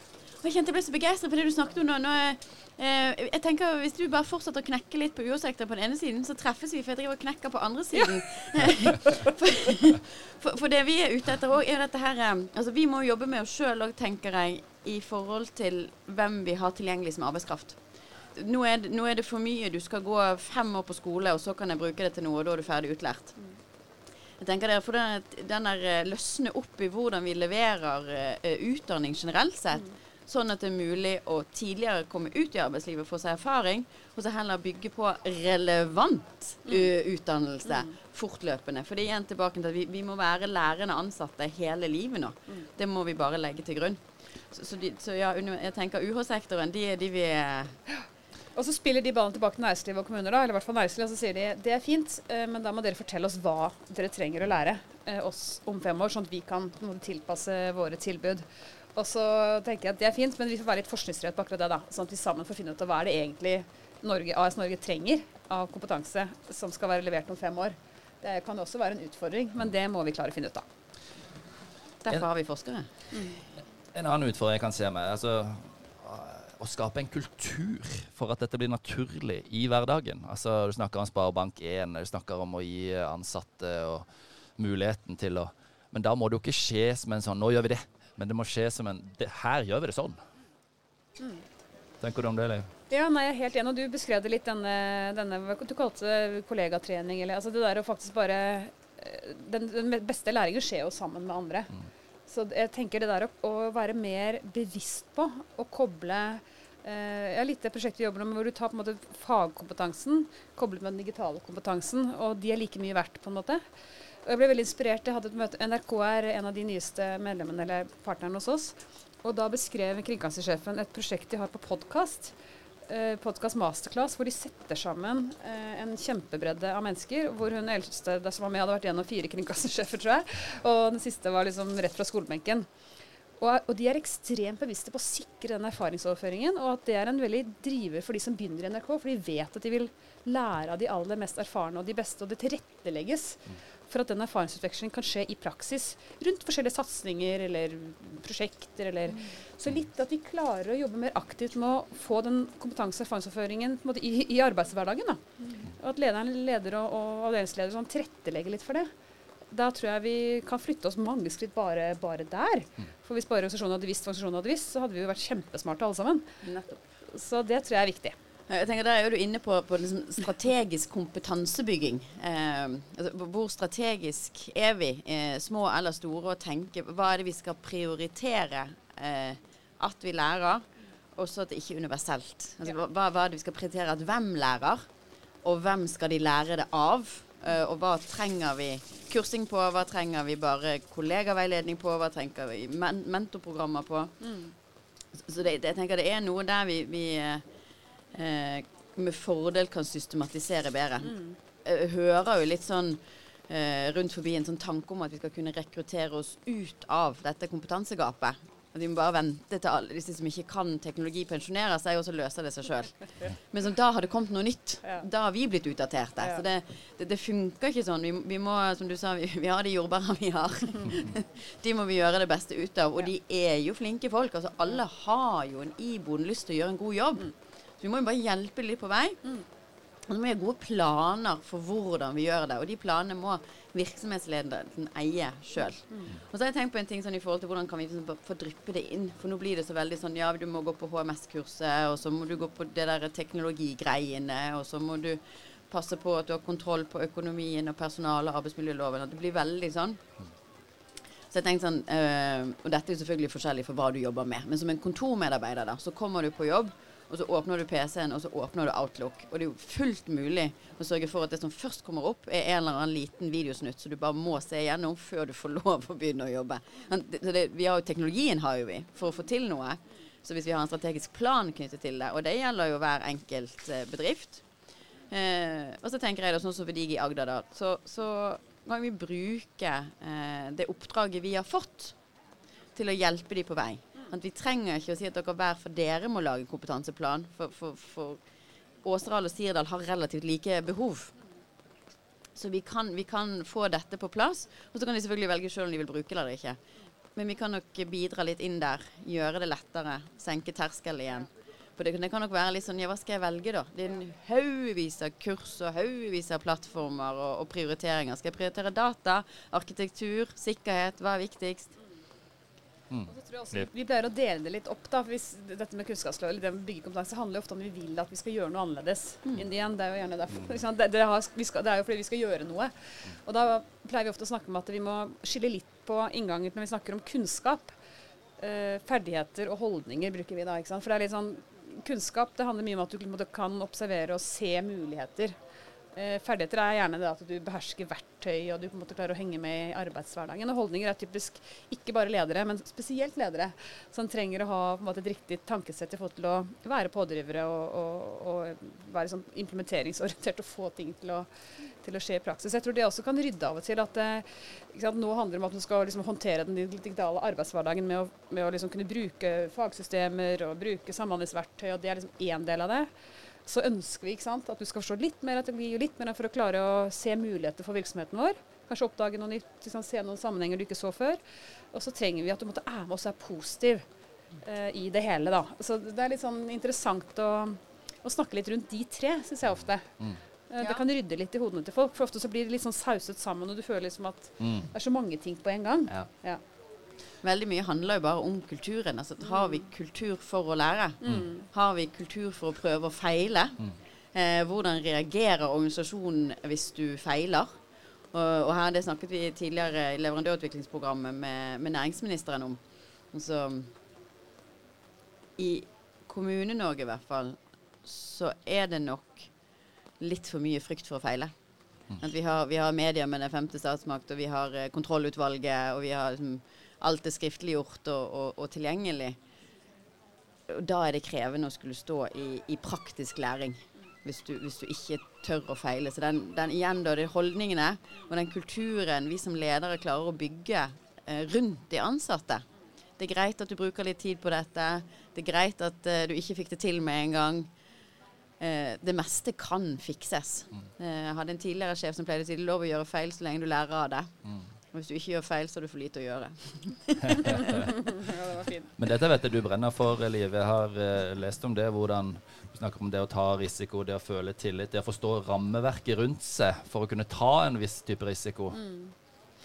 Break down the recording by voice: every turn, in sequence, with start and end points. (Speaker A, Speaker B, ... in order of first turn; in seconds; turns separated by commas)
Speaker A: 0.4-17.8, Speaker B: 9.1-9.3, Speaker A: 18.4-23.4, Speaker A: 24.4-47.8, Speaker B: 48.6-70.7, Speaker A: 72.0-72.9, Speaker C: 73.9-90.2, Speaker C: 92.0-92.7, Speaker B: 92.9-101.7, Speaker B: 102.3-113.6, Speaker B: 114.2-122.3, Speaker B: 122.9-132.7, Speaker B: 133.4-158.9, Speaker B: 159.5-166.3, Speaker A: 166.4-166.8, Speaker B: 167.1-168.2, Speaker A: 168.5-180.6, Speaker A: 181.2-184.8, Speaker A: 185.4-194.2, Speaker B: 194.2-194.5, Speaker A: 195.3-197.4, Speaker A: 198.1-229.4, Speaker B: 201.1-201.3, Speaker A: 230.1-250.0, Speaker A: 251.3-274.4, Speaker A: 275.1-281.9, Speaker A: 282.8-288.2, Speaker A: 288.8-291.1, Speaker A: 292.4-296.6, Speaker A: 297.2-311.8, Speaker C: 312.9-313.7, Speaker B: 313.1-327.8, Speaker B: 328.4-335.4, Speaker B: 335.9-351.3, Speaker B: 351.8-362.9, Speaker B: 363.5-371.2, Speaker B: 371.7-373.9, Speaker B: 374.4-379.9, Speaker B: 380.5-386.4, Speaker A: 387.2-397.5, Speaker B: 391.0-391.4, Speaker A: 398.1-402.6, Speaker A: 403.1-403.7, Speaker A: 405.4-409.3, Speaker A: 410.0-411.3, Speaker A: 412.0-419.2, Speaker A: 420.5-432.4, Speaker A: 433.0-437.5, Speaker A: 438.4-444.1, Speaker A: 444.7-447.7, Speaker C: 447.1-447.6, Speaker B: 447.3-448.7, Speaker C: 448.8-458.6, Speaker B: 458.5-458.9